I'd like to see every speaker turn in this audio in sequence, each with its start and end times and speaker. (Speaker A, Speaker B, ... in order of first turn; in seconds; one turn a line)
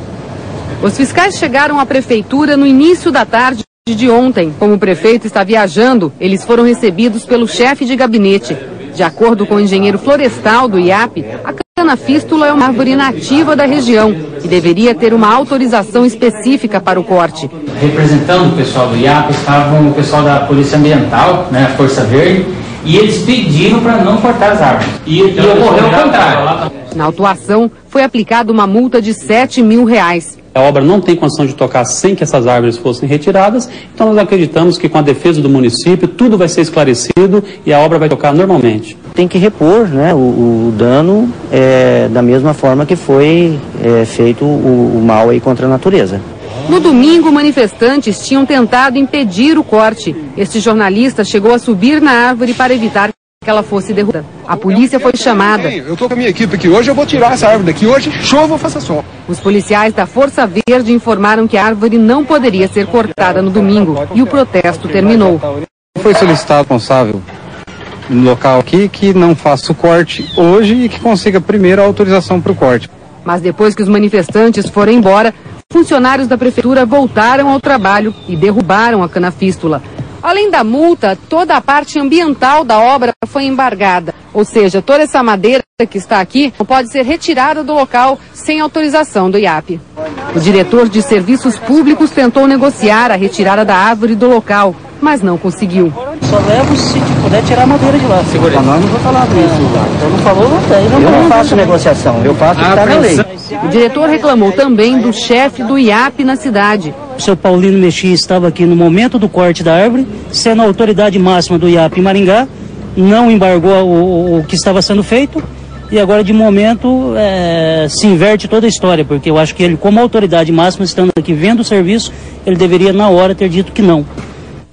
Speaker A: 0.8-17.5
Speaker B: 17.8-18.1
Speaker B: 23.1-23.9
Speaker B: 24.8-26.4
Speaker C: 25.3-26.5
Speaker A: 26.9-30.4
Speaker C: 30.6-39.0
Speaker D: 39.1-46.2
Speaker A: 46.7-55.8
Speaker E: 55.5-59.0
Speaker A: 59.3-65.5
Speaker F: 66.0-67.2
Speaker F: 68.1-72.9
Speaker A: 73.2-96.0
Speaker G: 96.1-98.7
Speaker D: 98.5-103.2
Speaker G: 99.3-99.7
Speaker G: 100.5-101.8
Speaker A: 103.6-107.0
Speaker G: 107.1-124.1